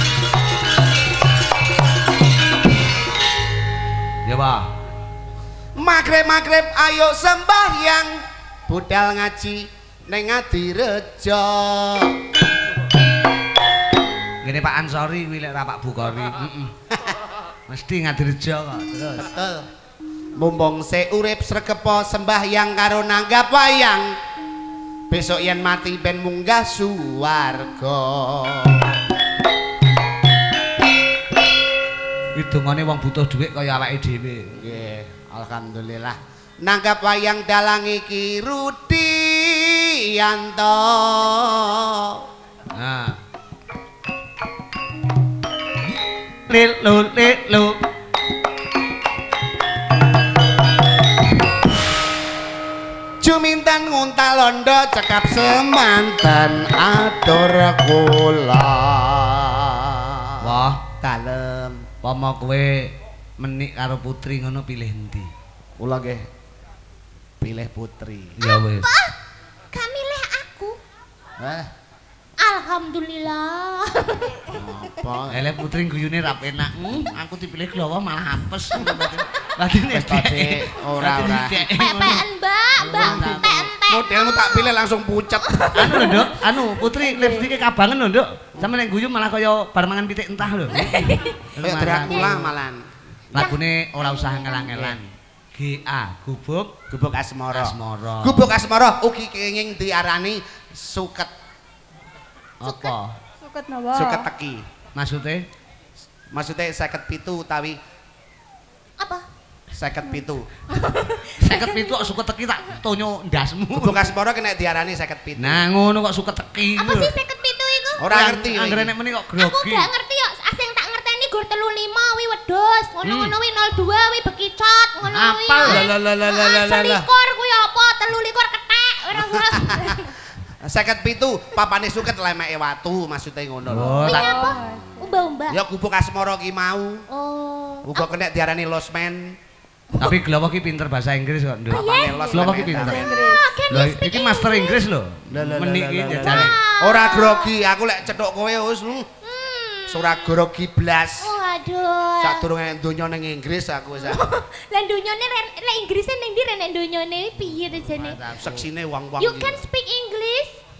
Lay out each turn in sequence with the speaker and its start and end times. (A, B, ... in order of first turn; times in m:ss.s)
0:04.3-0:04.7 A
0:05.8-0:12.2 B
0:14.4-0:16.7 A
0:17.7-0:19.3 A
0:19.2-0:19.7 B
0:20.4-0:24.2 B
0:25.1-0:28.9 B
0:32.4-0:34.6 A
0:34.6-0:42.2 B
0:42.7-0:43.2 A
0:46.5-0:47.8 A
0:53.2-1:01.9 B
1:00.4-1:00.8 A
1:02.0-1:05.3 A
1:05.8-1:06.2 B
1:07.4-1:08.4 B
1:08.4-1:08.9 A
1:08.4-1:09.1 C
1:09.7-1:10.8 C
1:11.4-1:11.7 B
1:12.4-1:14.5 C
1:14.5-1:15.5 B
1:15.3-1:22.2 A
1:19.9-1:21.6 B
1:21.7-1:24.8 C
1:22.8-1:23.7 A
1:23.0-1:26.2 B
1:25.5-1:26.3 C
1:25.8-1:31.0 A
1:30.7-1:31.5 C
1:31.6-1:32.5 A
1:31.6-1:32.9 B
1:32.1-1:32.4 C
1:33.3-1:36.7 A
1:33.4-1:34.7 C
1:34.7-1:35.0 B
1:36.9-1:41.3 B
1:37.5-1:38.5 A
1:42.6-1:43.2 A
1:42.6-1:43.0 C
1:43.4-1:44.2 D
1:43.9-1:44.6 B
1:45.0-1:45.4 A
1:46.3-1:47.8 B
1:49.0-1:49.2 C
1:49.7-1:50.5 B
1:50.7-1:52.1 C
1:51.4-1:54.1 A
1:53.7-1:55.6 B
1:55.4-1:57.1 A
1:56.8-1:58.1 C
1:58.0-1:58.9 B
1:58.1-1:59.9 A
1:59.4-2:10.1 C
2:03.0-2:03.3 A
2:05.1-2:05.8 A
2:05.6-2:07.0 B
2:09.2-2:10.1 B
2:10.6-2:14.2 B
2:13.7-2:14.5 A
2:14.0-2:15.6 C
2:14.2-2:14.9 D
2:15.5-2:17.0 B
2:17.1-2:18.1 C
2:17.9-2:19.4 B
2:20.0-2:23.1 A
2:21.7-2:24.8 C
2:21.7-2:23.3 B
2:22.9-2:23.6 D
2:23.7-2:26.5 A
2:25.3-2:29.1 B
2:26.2-2:27.5 C
2:29.2-2:30.3 C
2:29.9-2:31.3 B
2:31.2-2:32.4 C
2:32.2-2:34.2 B
2:34.0-2:38.2 C
2:37.9-2:38.7 A
2:38.4-2:39.6 B
2:39.2-2:40.6 C